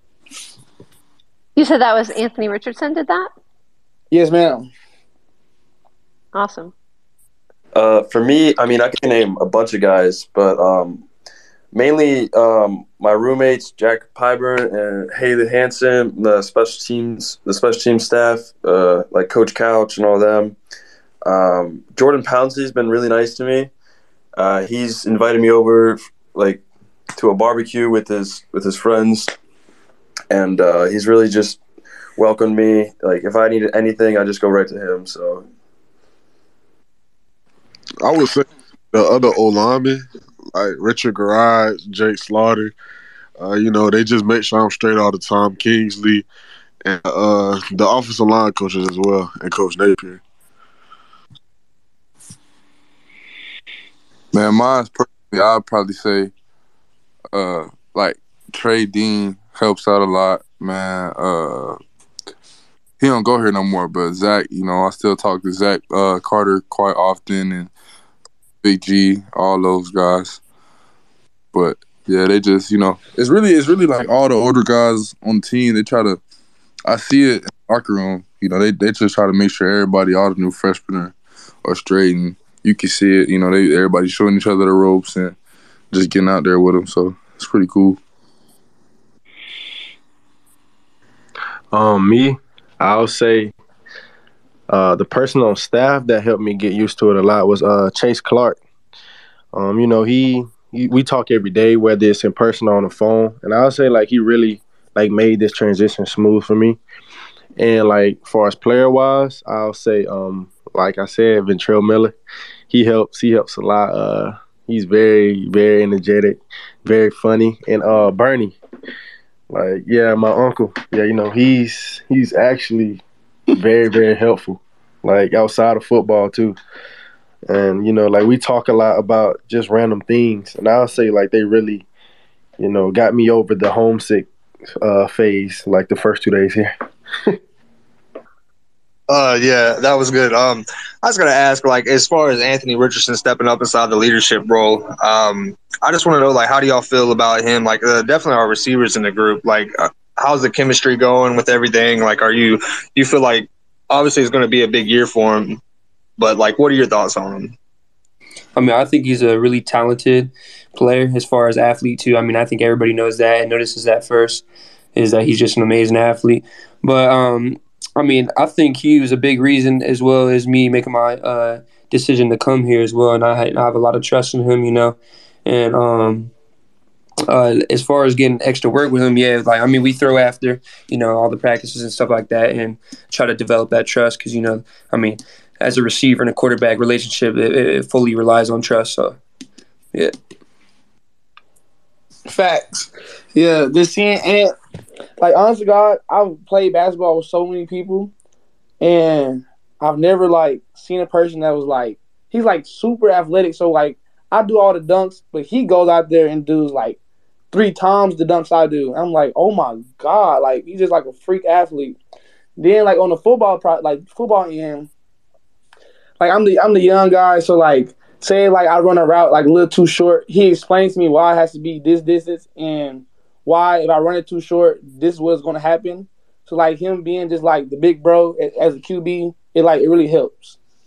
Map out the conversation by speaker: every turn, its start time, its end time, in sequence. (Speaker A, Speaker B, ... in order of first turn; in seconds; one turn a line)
Speaker A: 1.6-3.3
Speaker B: 4.1-4.7
Speaker A: 6.3-6.7
Speaker C: 7.7-11.1
Speaker C: 11.7-20.6
Speaker C: 21.2-23.7
Speaker C: 24.4-26.6
Speaker C: 27.1-29.3
Speaker C: 30.3-31.6
Speaker C: 32.2-35.5
Speaker D: 38.0-42.7
Speaker D: 43.4-46.2
Speaker D: 46.8-50.2
Speaker E: 54.3-56.3
Speaker E: 57.3-61.8
Speaker E: 63.0-67.7
Speaker E: 68.6-70.4
Speaker E: 71.5-76.2
Speaker E: 76.9-85.3
Speaker E: 85.9-88.0
Speaker F: 91.7-93.5
Speaker F: 94.7-98.6
Speaker F: 99.5-106.8
Speaker F: 107.6-112.1
Speaker F: 112.7-118.5
Speaker F: 119.5-123.0
Speaker F: 123.5-126.6
Speaker F: 127.5-131.8
Speaker F: 132.6-134.3
Speaker F: 134.8-136.7
Speaker G: 139.1-155.6
Speaker G: 156.2-157.5
Speaker H: 158.6-164.4
Speaker H: 164.9-176.3
Speaker H: 177.3-189.2
Speaker B: 192.3-194.5
Speaker B: 195.2-198.1
Speaker B: 198.8-207.0
Speaker B: 207.5-212.0
Speaker B: 212.6-214.9
Speaker B: 216.2-230.6